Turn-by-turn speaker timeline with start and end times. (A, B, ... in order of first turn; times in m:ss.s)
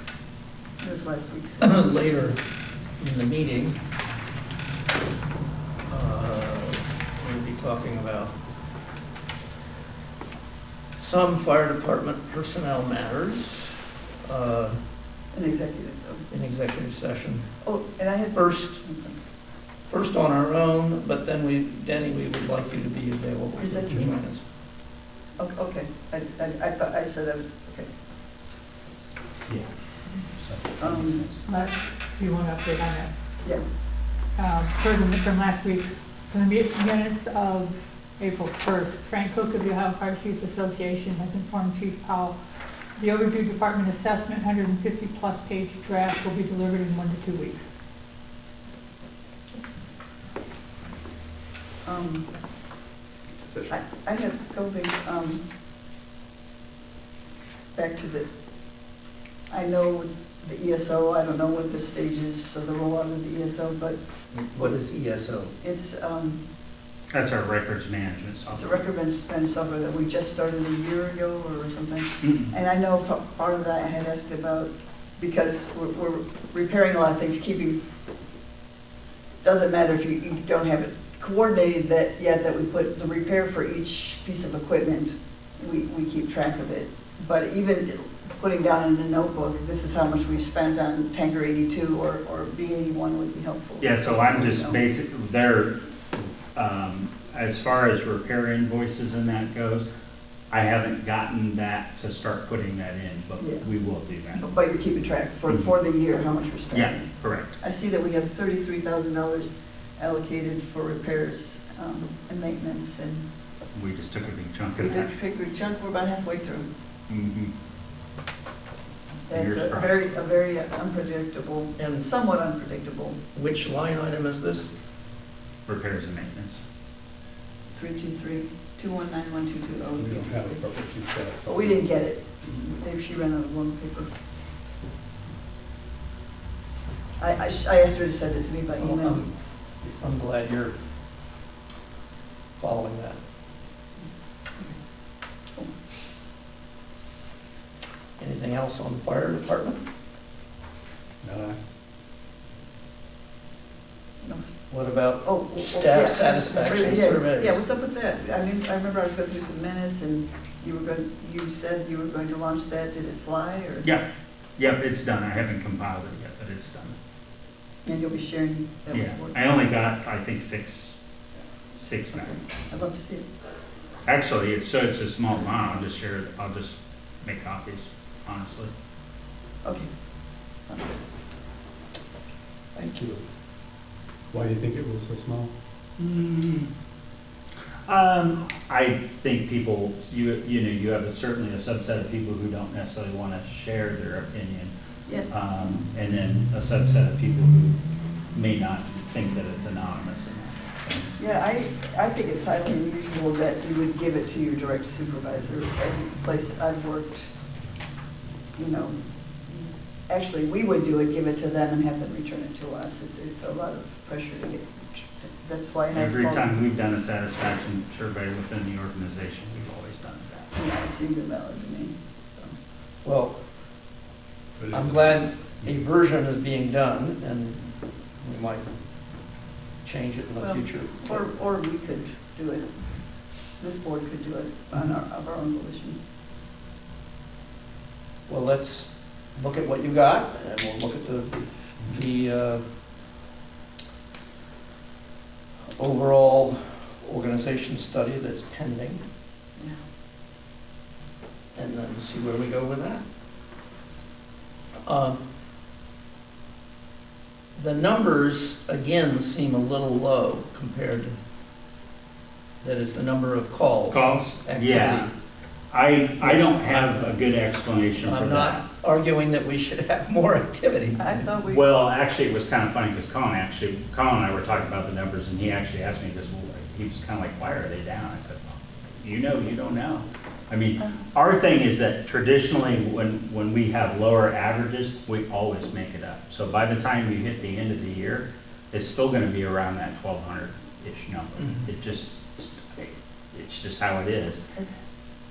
0:00.8-0:01.8 A
0:01.6-0:02.4 B
0:03.0-0:03.8 B
0:05.9-0:08.4 B
0:11.0-0:14.8 B
0:15.3-0:16.2 A
0:16.3-0:17.5 B
0:17.6-0:19.1 A
0:18.4-0:18.8 B
0:19.9-0:24.4 B
0:23.6-0:24.1 A
0:25.4-0:27.9 A
0:29.5-0:31.4 C
0:30.8-0:31.2 A
0:31.4-0:33.1 D
0:34.4-0:42.4 D
0:43.0-0:47.7 D
0:51.8-0:52.3 A
0:53.4-0:53.7 E
0:53.7-0:55.4 A
0:57.8-0:58.3 A
0:59.5-1:04.0 A
1:04.3-1:05.5 B
1:05.6-1:06.4 A
1:07.1-1:08.8 C
1:08.5-1:17.8 A
1:12.2-1:12.5 C
1:19.4-1:34.8 A
1:33.8-1:39.9 C
1:40.5-1:44.4 C
1:43.4-1:43.6 A
1:44.3-1:47.1 A
1:46.7-1:47.6 C
1:47.6-1:53.2 A
1:53.7-1:55.1 C
1:54.8-1:56.7 A
1:57.1-1:57.5 C
1:59.3-2:03.2 A
1:59.3-2:00.0 C
2:01.8-2:02.1 B
2:03.3-2:04.7 B
2:05.7-2:06.6 C
2:07.7-2:10.6 A
2:10.0-2:11.9 E
2:11.5-2:14.1 A
2:17.2-2:19.2 A
2:18.8-2:20.8 B
2:22.6-2:23.2 B
2:28.2-2:29.8 B
2:31.2-2:31.6 E
2:34.7-2:37.6 B
2:35.2-2:43.9 A
2:44.6-2:47.0 C
2:47.9-2:49.4 A
2:48.9-2:51.0 C
2:51.8-2:52.4 C
2:52.1-2:53.2 A
2:54.1-2:58.7 C
3:00.7-3:01.0 A
3:02.8-3:03.2 A
3:04.3-3:05.5 E
3:06.0-3:06.7 C
3:07.9-3:14.7 C
3:15.3-3:17.8 C
3:18.3-3:21.1 C
3:21.2-3:27.3 A
3:28.6-3:36.6 A
3:35.9-3:40.5 C
3:40.6-3:42.6 A
3:43.0-3:43.4 B
3:44.6-3:45.7 E
3:44.7-3:48.7 B
3:49.8-3:51.2 B
3:50.4-3:52.7 A
3:53.6-3:56.0 A
3:58.3-4:02.6 B
4:05.8-4:09.0 B
4:11.6-4:13.0 B
4:14.9-4:15.2 B
4:17.6-4:21.2 B
4:22.6-4:25.1 B
4:23.9-4:25.1 C
4:25.7-4:28.6 C
4:26.2-4:27.2 B
4:28.0-4:31.0 B
4:31.0-4:31.7 A
4:31.5-4:54.4 C